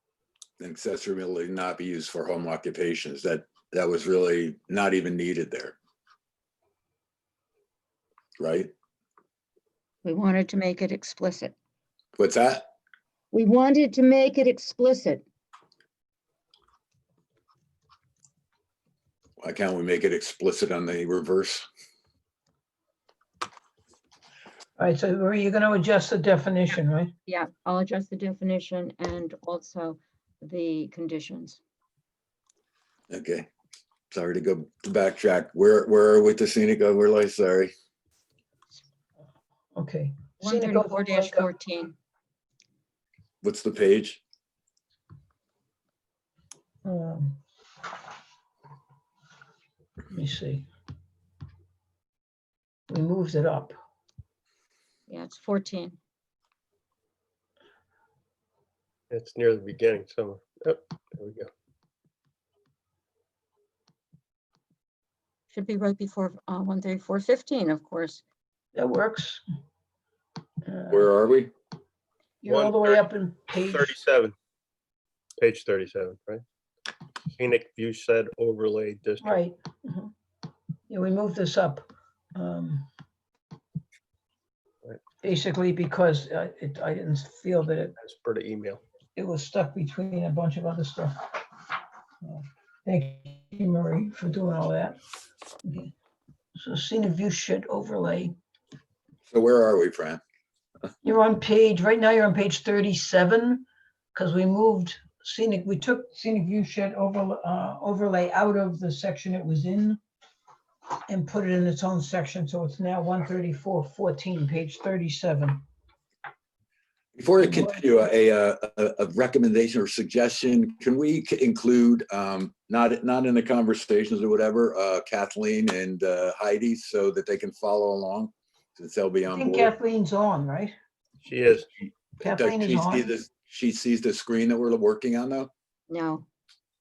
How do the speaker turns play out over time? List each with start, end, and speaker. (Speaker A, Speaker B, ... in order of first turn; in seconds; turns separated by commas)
Speaker A: 0.6-5.8, Speaker A: 8.4-8.7, Speaker B: 10.1-11.6, Speaker A: 12.2-12.7, Speaker B: 13.3-15.2, Speaker A: 19.4-21.7, Speaker C: 24.8-27.1, Speaker B: 27.3-31.6, Speaker A: 33.1-33.5, Speaker A: 34.1-37.7, Speaker C: 39.8-41.5, Speaker B: 40.4-42.0, Speaker A: 43.4-44.2, Speaker C: 46.9-47.4, Speaker C: 50.1-50.7, Speaker C: 52.9-53.8, Speaker B: 55.1-56.0, Speaker D: 59.1-61.5, Speaker B: 65.5-68.2, Speaker C: 68.7-69.4, Speaker C: 70.7-71.1, Speaker A: 70.9-71.5, Speaker C: 72.4-74.0, Speaker D: 72.5-73.0, Speaker D: 73.6-74.3, Speaker D: 75.4-76.4, Speaker D: 77.4-79.4, Speaker C: 79.2-80.1, Speaker C: 80.9-82.9, Speaker C: 85.2-88.0, Speaker D: 88.0-88.8, Speaker C: 89.2-91.3, Speaker C: 92.2-95.0, Speaker C: 95.7-95.9, Speaker C: 96.6-98.3, Speaker A: 99.3-100.2, Speaker C: 101.0-110.0, Speaker C: 111.1-115.7, Speaker A: 117.2-129.7, Speaker C: 117.4-117.8, Speaker C: 129.3-130.8, Speaker D: 131.2-131.7, Speaker C: 132.2-133.1, Speaker A: 132.2-135.5, Speaker B: 135.9-136.3